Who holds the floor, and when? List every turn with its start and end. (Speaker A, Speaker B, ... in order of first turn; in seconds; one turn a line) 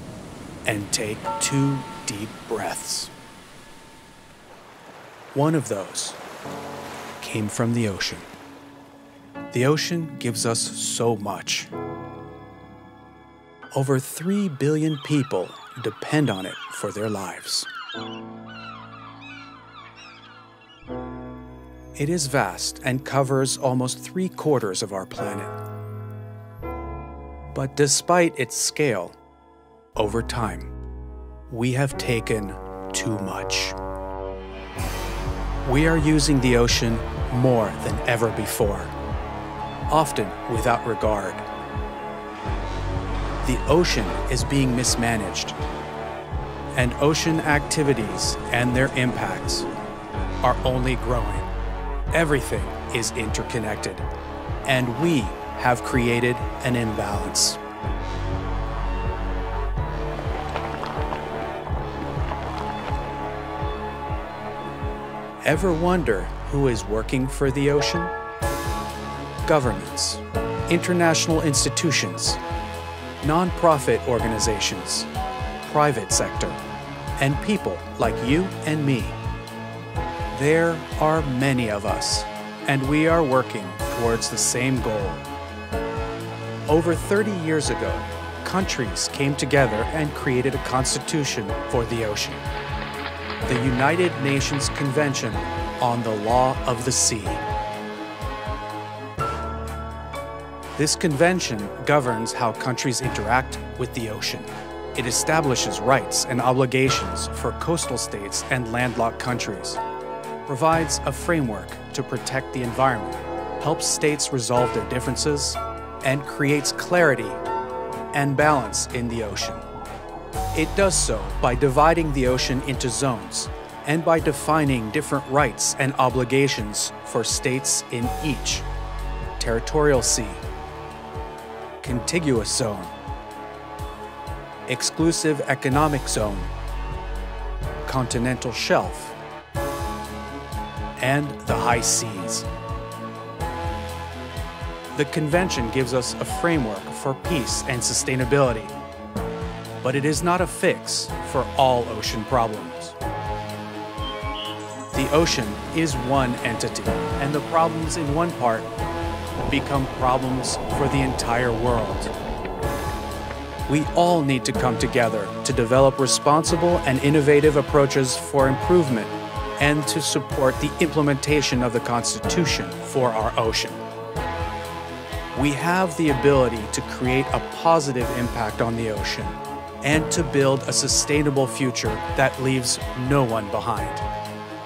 Speaker A: 0.7-3.1
Speaker A: 5.3-6.2
Speaker A: 7.2-8.3
Speaker A: 9.5-11.7
Speaker A: 13.7-17.7
Speaker A: 22.0-25.5
Speaker A: 27.5-29.2
Speaker A: 30.0-30.7
Speaker A: 31.5-33.8
Speaker A: 35.6-38.9
Speaker A: 39.9-41.5
Speaker A: 43.4-45.6
Speaker A: 46.8-49.7
Speaker A: 50.4-51.5
Speaker A: 52.1-54.0
Speaker A: 54.6-57.6
Speaker A: 65.4-68.1
Speaker A: 69.5-72.4
Speaker A: 73.2-75.1
Speaker A: 75.6-76.6
Speaker A: 77.2-79.2
Speaker A: 80.3-85.2
Speaker A: 86.7-92.5
Speaker A: 93.4-97.4
Speaker A: 100.8-109.8
Speaker A: 110.5-117.4
Speaker A: 118.1-119.6
Speaker A: 120.5-128.7
Speaker A: 129.4-130.4
Speaker A: 131.8-132.9
Speaker A: 134.7-136.5
Speaker A: 137.8-139.2
Speaker A: 141.0-142.5
Speaker A: 144.9-148.8
Speaker A: 149.8-153.0
Speaker A: 154.9-158.7
Speaker A: 159.4-162.1
Speaker A: 163.7-173.8
Speaker A: 175.3-184.1